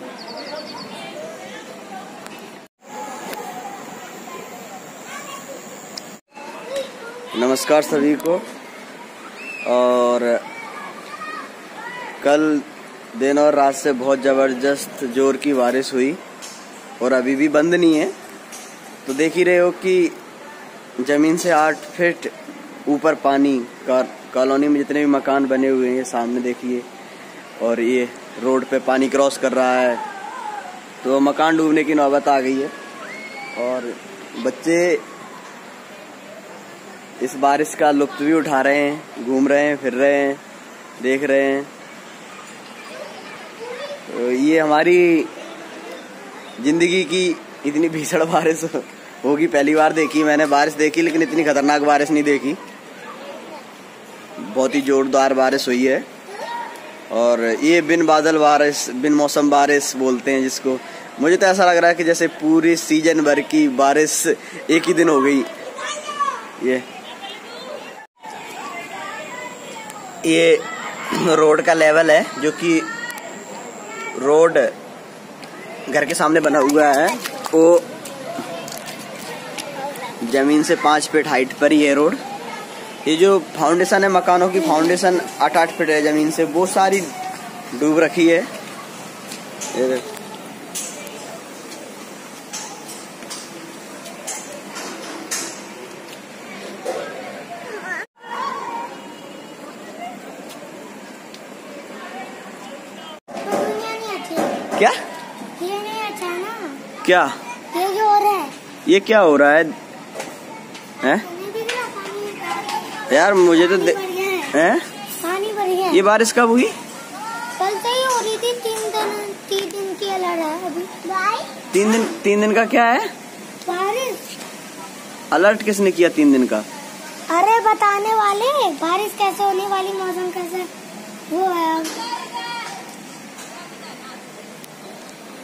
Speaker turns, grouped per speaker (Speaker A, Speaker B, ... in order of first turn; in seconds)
Speaker A: 7.3-8.4, 9.7-10.4, 12.2-16.2, 17.0-18.1, 19.1-20.2, 21.0-22.3, 22.9-26.9, 27.6-30.0, 31.0-32.7, 33.5-35.0, 37.2-40.4, 41.0-41.7, 44.1-45.3, 46.6-52.6, 54.4-56.0, 57.1-65.5, 66.6-66.8, 70.2-72.9, 74.2-74.7, 75.9-77.8, 80.2-82.2, 83.0-87.1, 87.8-88.5, 89.7-90.0, 107.0-107.3, 108.8-109.7, 113.1-114.0, 114.5-114.8, 115.9-116.7, 121.7-123.0, 125.3-126.7
Speaker B: 103.4-104.5, 105.6-106.8, 107.7-108.5, 111.0-114.6, 115.2-116.0, 117.6-121.5, 123.7-124.3, 127.3-130.7, 131.3-132.1